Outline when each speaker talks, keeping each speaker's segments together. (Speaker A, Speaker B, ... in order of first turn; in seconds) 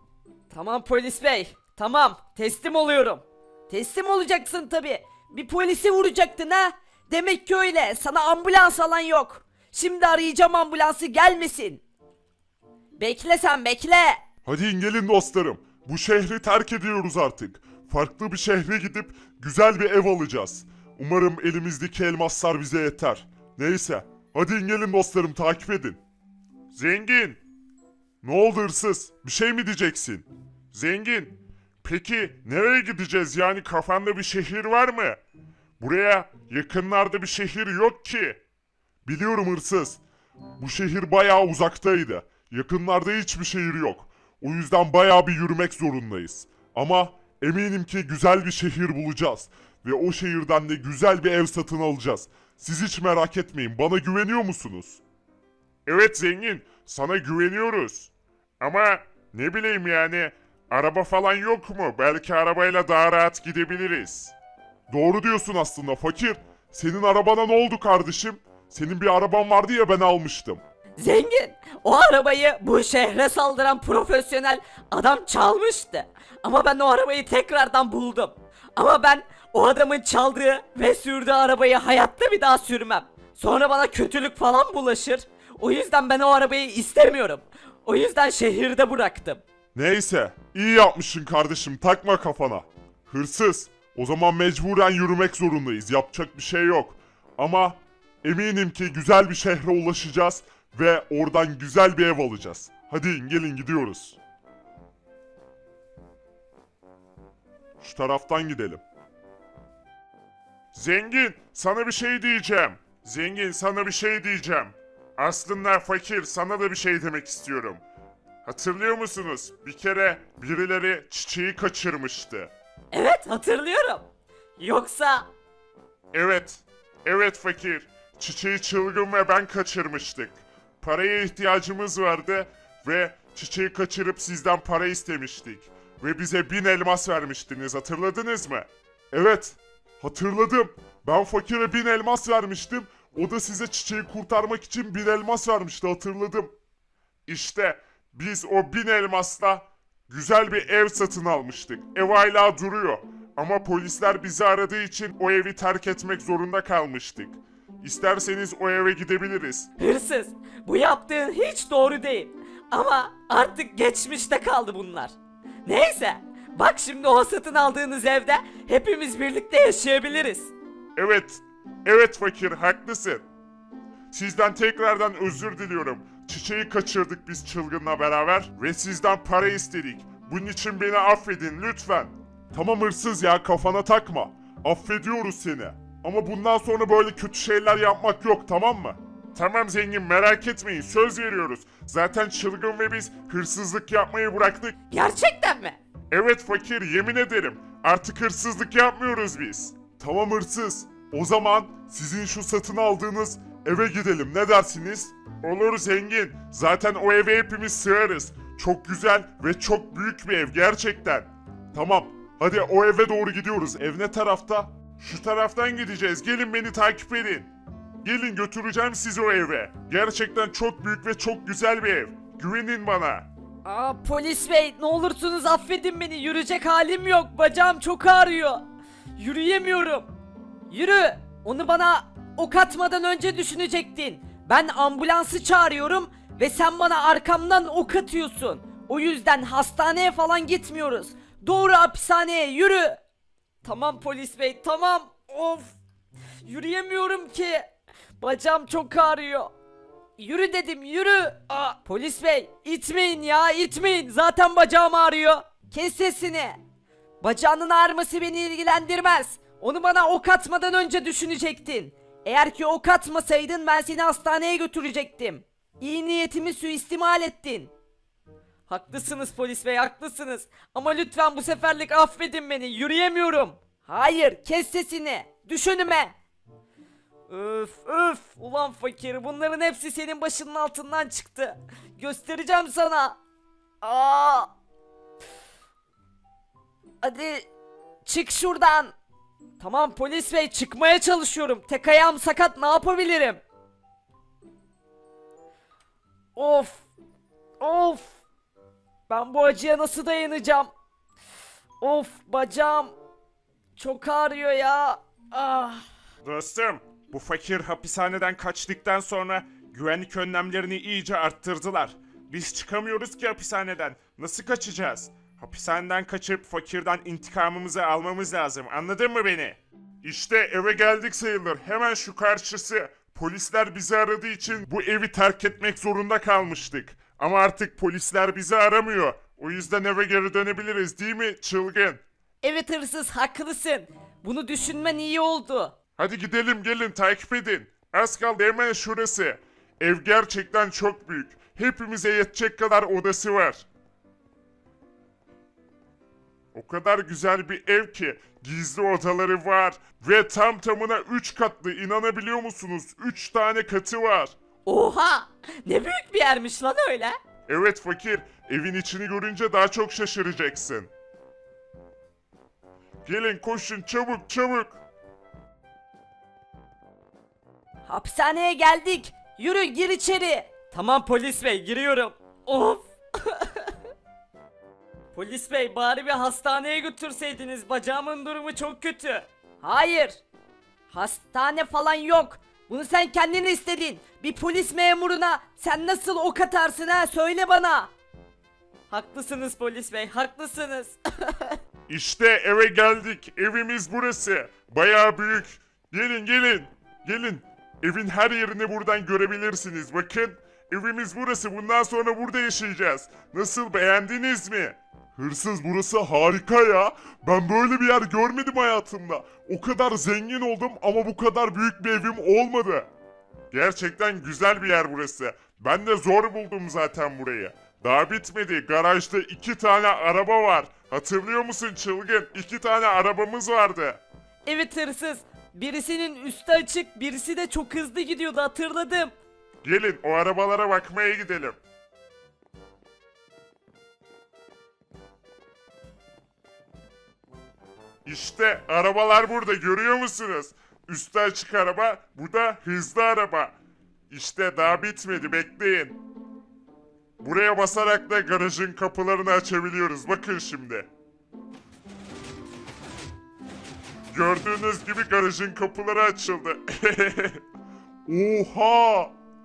Speaker A: 0.5-11.8, 13.0-14.2, 71.0-89.4, 122.9-124.0, 124.6-125.3, 159.8-170.5, 194.9-195.8, 223.6-228.6, 229.2-230.1, 230.7-243.0, 243.6-245.8, 246.4-247.7, 248.2-249.5, 250.2-256.6, 257.2-267.7, 268.7-276.1, 277.3-283.2, 283.8-284.5, 287.0-287.5, 288.0-288.9, 289.6-293.4, 296.4-296.9, 297.6-298.2, 299.1-300.7, 301.8-302.9, 303.8-305.8, 332.4-335.7, 354.6-357.2, 367.9-373.7, 375.1-380.2, 380.9-387.9, 388.9-391.6, 424.4-429.1
Speaker B: 14.4-26.0, 26.7-27.4, 28.2-35.2, 35.8-38.4, 39.0-40.0, 40.6-55.0, 55.9-64.3, 64.9-70.6, 89.7-104.2, 107.8-108.8, 110.7-117.8, 118.4-122.5, 126.1-146.5, 147.3-159.7, 170.9-173.2, 174.1-194.7, 196.1-217.5, 218.0-223.3, 306.2-332.0, 336.0-343.6, 346.5-354.3, 357.5-360.9, 363.0-364.8, 391.9-412.9, 413.5-424.0, 429.6-431.6, 438.0-443.6, 444.1-446.0, 447.2-450.9, 454.1-457.4, 458.1-459.1